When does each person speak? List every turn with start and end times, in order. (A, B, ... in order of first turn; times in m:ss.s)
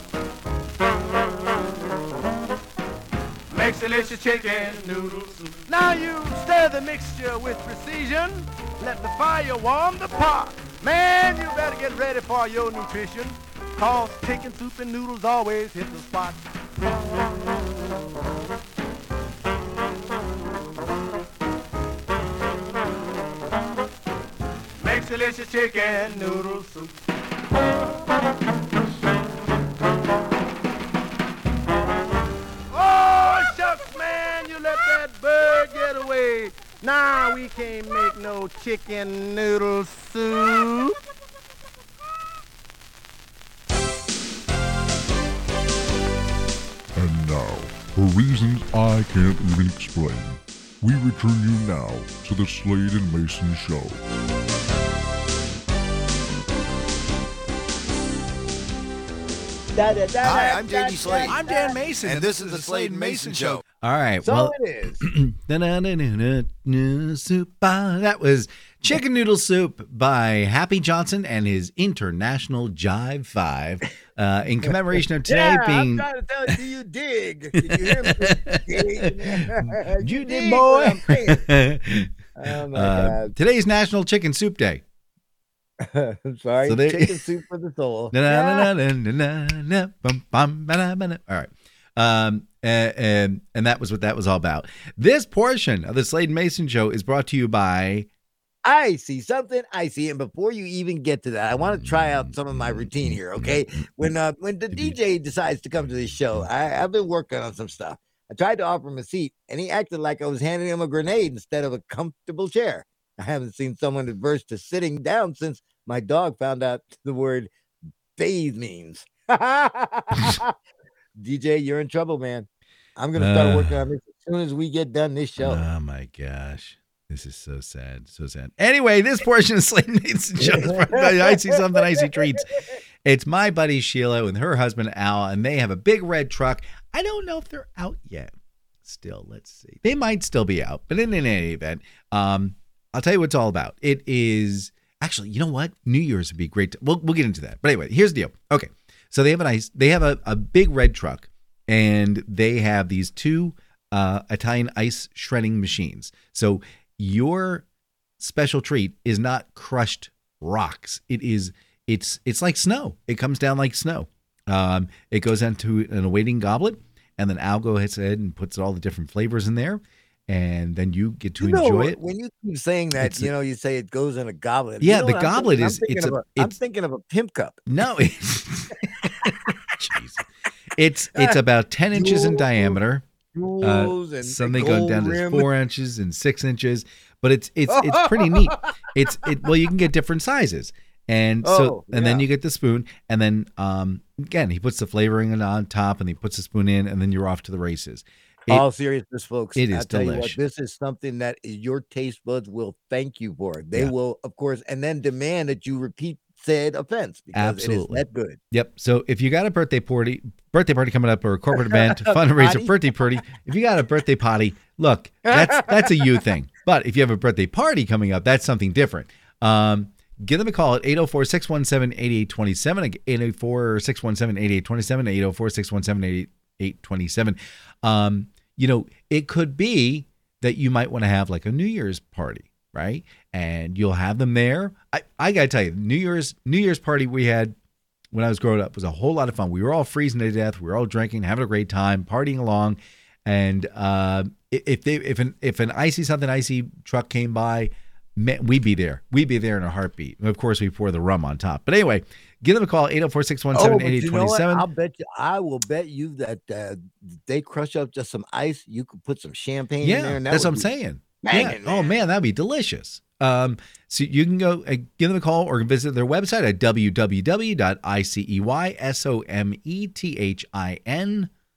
0:03.5-0:16.4 A
0:24.8-0:27.0 A
0:32.7-0:41.0 A
0:47.0-0:54.0 B
0:59.7-1:02.4 C
1:00.3-1:03.6 D
1:03.0-1:03.5 C
1:03.8-1:16.1 E
1:04.2-1:05.0 C
1:15.3-1:21.5 C
1:17.6-1:22.1 E
1:22.4-1:23.3 C
1:22.7-1:24.8 E
1:25.8-1:28.7 C
1:26.6-1:27.2 E
1:28.1-1:38.1 E
1:38.6-1:57.5 C
1:58.2-2:00.5 C
2:01.2-2:05.7 C
2:03.2-2:03.8 E
2:05.4-2:18.3 E
2:10.4-2:12.2 C
2:18.8-2:37.7 E
2:38.2-2:52.0 E
2:51.4-2:57.6 C
2:53.0-2:53.3 E
2:54.8-2:56.5 E
2:57.7-3:00.2 E
2:59.0-2:59.6 C
3:00.8-3:03.0 E
3:01.9-3:02.8 C
3:03.3-3:05.5 C
3:03.6-3:18.6 E
3:07.7-3:09.3 C
3:11.4-3:12.3 C
3:18.5-3:28.4 C
3:19.6-3:20.4 E
3:27.3-3:57.6 E
3:31.6-3:32.8 C
3:35.3-3:36.2 C
3:58.1-4:14.7 E
4:13.5-4:20.7 C
4:19.8-4:31.3 E
4:21.2-4:22.0 C